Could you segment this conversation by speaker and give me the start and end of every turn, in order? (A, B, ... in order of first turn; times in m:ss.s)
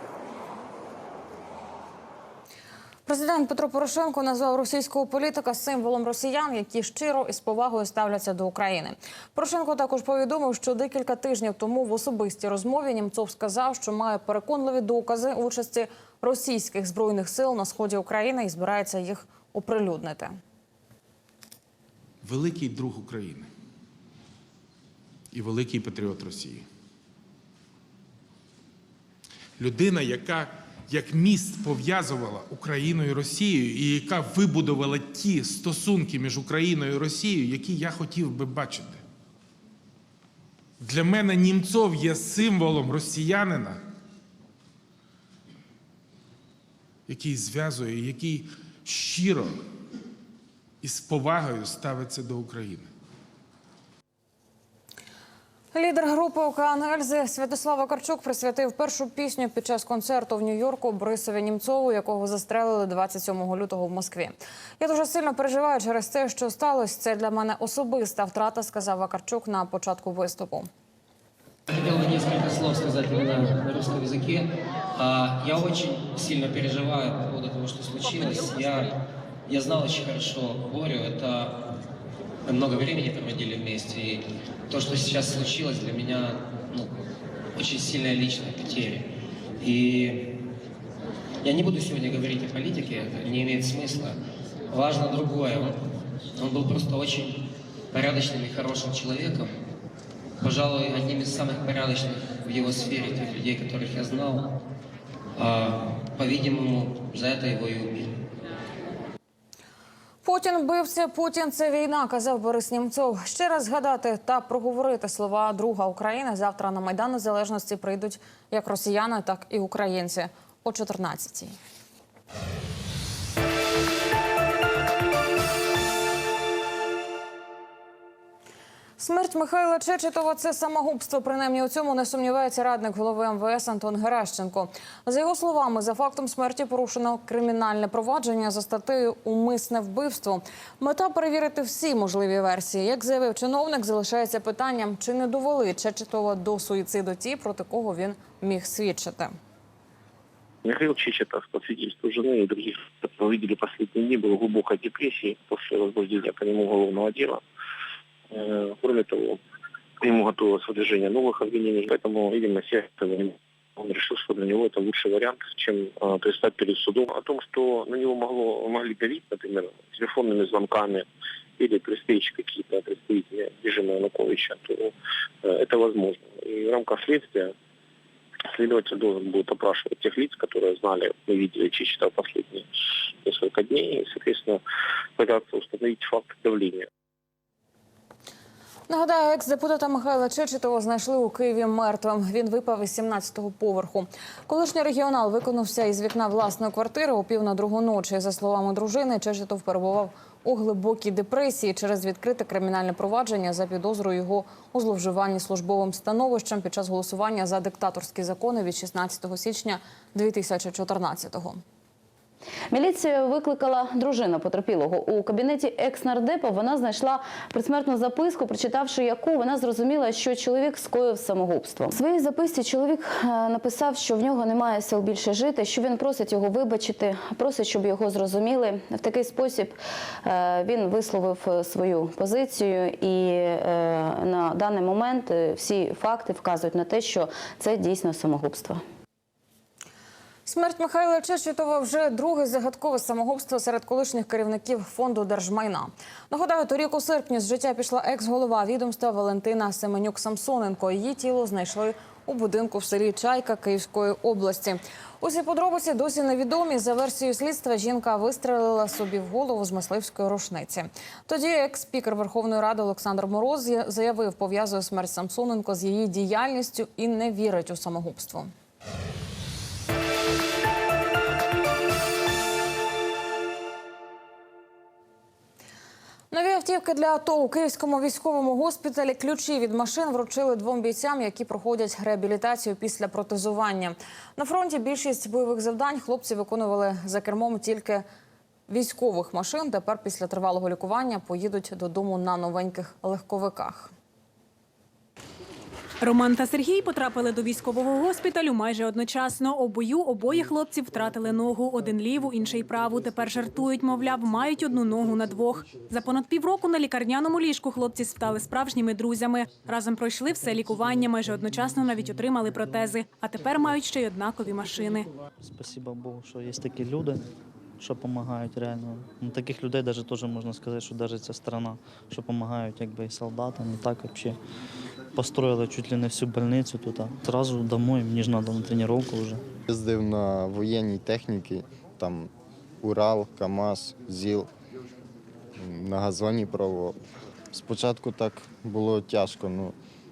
0:03.1-0:20.4 A
0:22.2-0:23.5 B
0:25.3-0:26.7 B
0:29.6-0:39.0 B
0:40.8-0:43.8 B
0:47.1-0:49.6 B
0:50.8-0:52.9 B
0:55.7-1:10.7 A
1:11.7-1:21.7 C
1:22.5-1:26.9 C
1:27.6-1:30.4 C
1:31.4-1:34.2 C
1:34.7-1:35.8 C
1:36.4-1:39.5 C
1:40.4-1:44.6 C
1:45.4-1:48.2 C
1:50.2-2:01.5 A
2:09.0-2:29.3 A
2:30.6-2:37.4 D
2:38.3-2:39.4 D
2:40.0-2:51.1 D
2:51.6-2:57.5 D
2:58.5-3:04.6 D
3:05.2-3:06.9 D
3:08.9-3:31.6 A
3:32.7-3:58.8 E
4:00.5-4:28.5 A
4:36.3-4:48.0 A
4:48.7-4:53.9 A
4:56.0-5:15.1 F
5:15.4-5:17.1 E
5:15.5-5:17.2 G
5:17.8-5:18.2 E
5:17.8-5:24.4 G
5:21.4-5:22.1 E
5:25.2-5:29.4 G
5:26.7-5:29.4 E
5:29.7-5:32.3 H
5:32.8-5:34.5 H
5:35.6-5:37.0 H
5:37.5-5:39.7 H